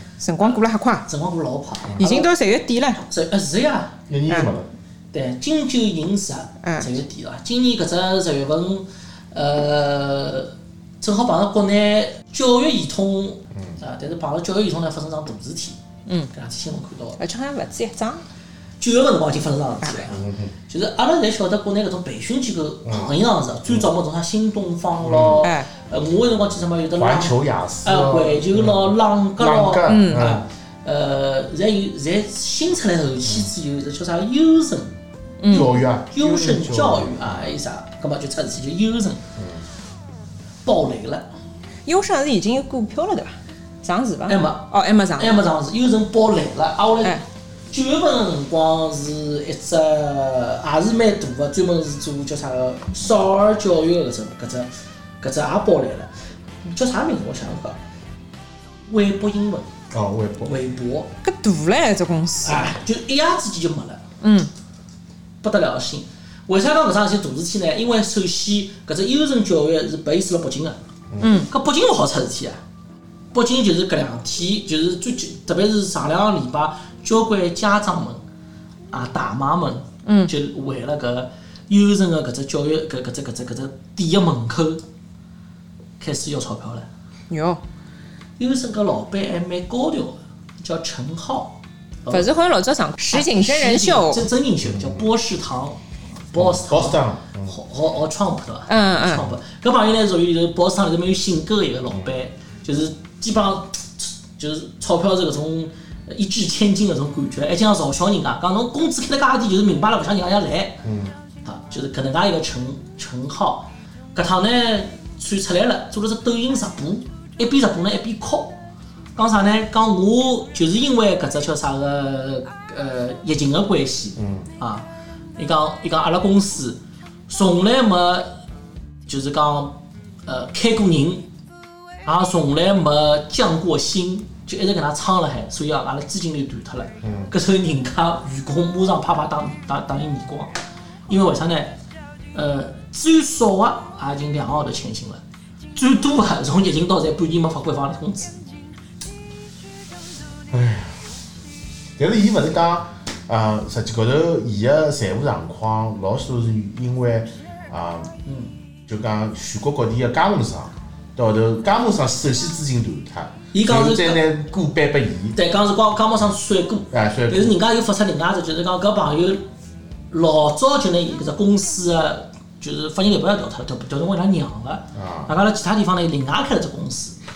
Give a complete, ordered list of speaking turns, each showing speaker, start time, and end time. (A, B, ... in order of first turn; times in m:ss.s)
0:00.2-0:01.1 A
0:00.4-0:02.4 B
0:02.0-0:03.0 A
0:03.0-0:04.0 B
0:04.1-0:04.7 C
0:05.1-0:15.8 B
0:06.6-0:06.9 A
0:16.3-0:17.2 B
0:17.2-0:18.2 A
0:18.8-0:34.9 B
0:20.1-0:20.6 C
0:22.8-0:23.2 C
0:25.0-0:25.5 C
0:25.4-0:25.7 A
0:27.0-0:30.4 C
0:29.9-0:30.3 A
0:35.4-0:35.8 A
0:35.5-0:37.6 C
0:36.1-0:39.2 B
0:39.4-0:39.6 C
0:40.6-0:41.3 B
0:41.9-0:45.4 A
0:44.3-0:47.2 B
0:47.7-0:54.7 B
0:55.2-0:56.1 B
0:56.7-0:57.8 B
0:58.9-0:59.7 B
0:59.9-1:00.6 C
1:00.4-1:01.1 B
1:01.2-1:02.8 A
1:02.4-1:04.0 B
1:04.2-1:04.5 A
1:05.4-1:10.8 B
1:11.1-1:11.4 C
1:11.2-1:11.5 A
1:11.5-1:12.6 B
1:13.3-1:18.2 B
1:18.9-1:24.8 B
1:20.0-1:20.3 A
1:26.0-1:26.9 B
1:27.3-1:27.6 A
1:28.4-1:32.3 B
1:32.1-1:34.3 A
1:33.0-1:35.8 B
1:34.6-1:35.1 C
1:36.3-1:50.8 B
1:36.4-1:37.6 C
1:38.7-1:39.3 A
1:50.8-1:51.1 C
1:51.4-1:58.6 B
1:59.2-2:08.3 B
2:04.2-2:04.5 C
2:09.1-2:11.3 B
2:12.0-2:20.5 B
2:17.0-2:17.3 C
2:21.1-2:21.8 B
2:22.3-2:25.2 B
2:25.7-2:28.4 B
2:30.5-2:31.0 C
2:32.0-2:38.1 C
2:38.9-2:45.4 C
2:43.5-2:44.2 B
2:45.4-2:49.4 B
2:46.9-2:47.6 C
2:50.1-2:57.2 B
2:55.0-2:55.3 C